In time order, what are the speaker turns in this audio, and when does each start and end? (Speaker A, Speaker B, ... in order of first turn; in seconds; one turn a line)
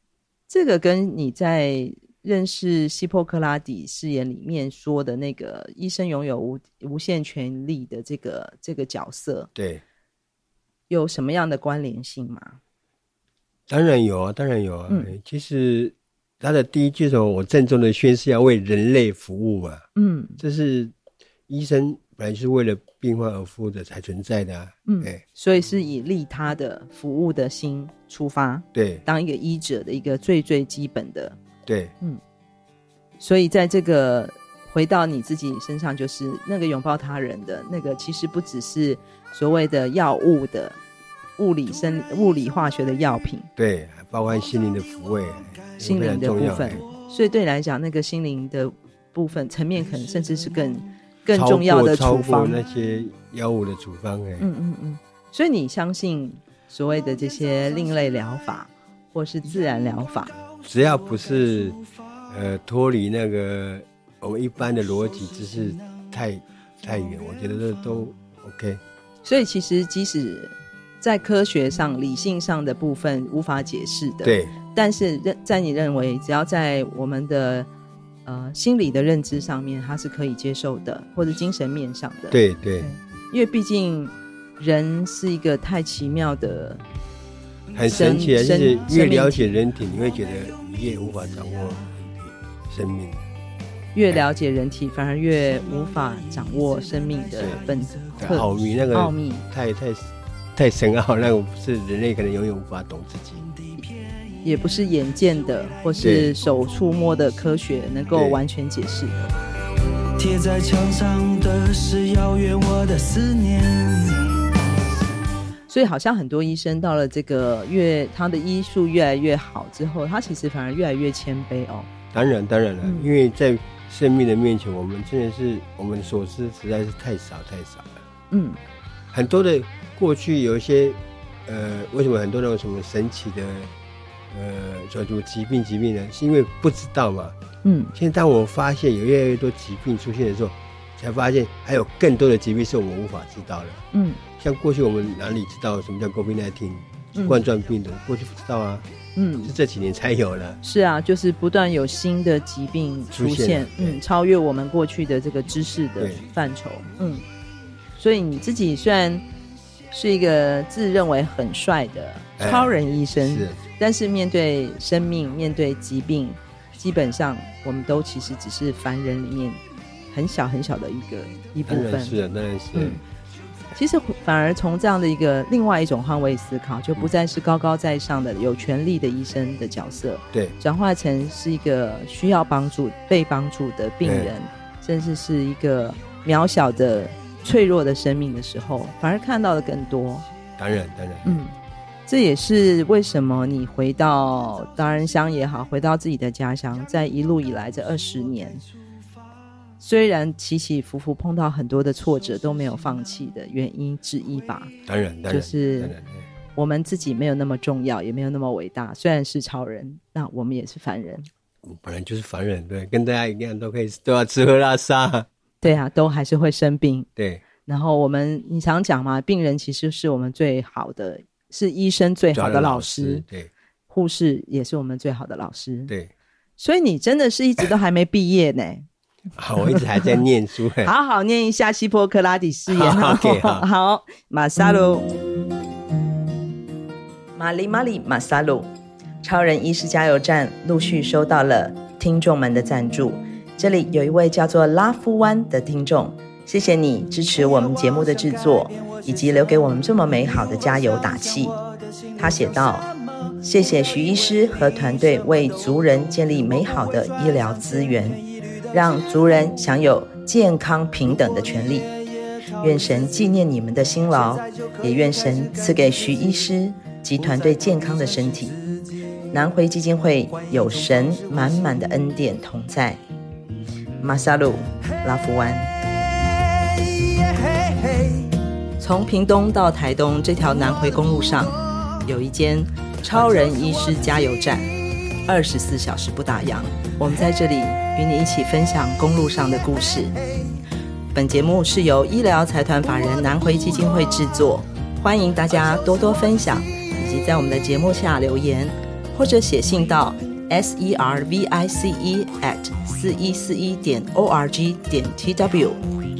Speaker A: 0.5-9.5
Speaker B: 9.5-9.8
Speaker A: 10.9-12.6
Speaker B: 13.7-19.9
Speaker A: 19.9-20.4
Speaker B: 20.4-20.9
Speaker B: 21.5-25.2
Speaker A: 24.9-31.4
Speaker B: 28.7-29.0
Speaker B: 31.6-31.9
Speaker A: 33.2-40.8
Speaker A: 41.4-43.5
Speaker B: 43.5-46.8
Speaker A: 45.8-52.6
Speaker B: 51.3-54.5
Speaker A: 54.4-60.4
Speaker B: 60.6-61.8
Speaker B: 62.3-68.8
Speaker A: 69.2-77.7
Speaker B: 74.2-74.5
Speaker A: 78.2-86.8
Speaker B: 82.3-82.9
Speaker B: 87.7-93.2
Speaker A: 87.9-89.5
Speaker A: 93.9-99.5
Speaker B: 98.2-103.5
Speaker A: 104.4-109.3
Speaker B: 106.0-106.3
Speaker B: 108.1-108.5
Speaker C: 110.2-114.4
Speaker A: 115.7-121.9
Speaker B: 122.1-128.0
Speaker A: 122.8-123.1
Speaker A: 128.3-128.6
Speaker B: 129.1-133.7
Speaker B: 134.3-137.3
Speaker A: 137.6-137.9
Speaker B: 137.9-143.8
Speaker A: 143.9-144.2
Speaker B: 144.4-148.8
Speaker A: 147.1-147.4
Speaker A: 149.2-149.5
Speaker B: 149.4-150.6
Speaker A: 150.6-157.2
Speaker B: 153.1-154.0
Speaker A: 158.0-159.2
Speaker A: 159.9-172.2
Speaker B: 162.4-163.6
Speaker B: 171.7-173.0
Speaker A: 172.7-173.0
Speaker A: 173.7-190.2
Speaker B: 184.0-184.3
Speaker B: 190.6-191.4
Speaker A: 191.2-191.5
Speaker A: 192.1-198.6
Speaker A: 199.8-204.7
Speaker B: 204.8-206.3
Speaker A: 205.3-205.9
Speaker A: 206.6-211.3
Speaker B: 211.6-215.3
Speaker A: 215.6-217.1
Speaker B: 217.2-217.4
Speaker A: 217.7-223.2
Speaker B: 222.3-223.5
Speaker A: 223.9-225.9
Speaker A: 226.6-228.8
Speaker B: 229.4-230.9
Speaker A: 229.6-230.2
Speaker A: 230.8-235.1
Speaker B: 232.7-233.7
Speaker A: 237.3-251.6
Speaker A: 252.2-261.9
Speaker A: 262.6-268.6
Speaker A: 269.3-273.0
Speaker A: 274.0-275.7
Speaker C: 276.6-278.3
Speaker A: 278.8-290.1
Speaker A: 291.1-305.8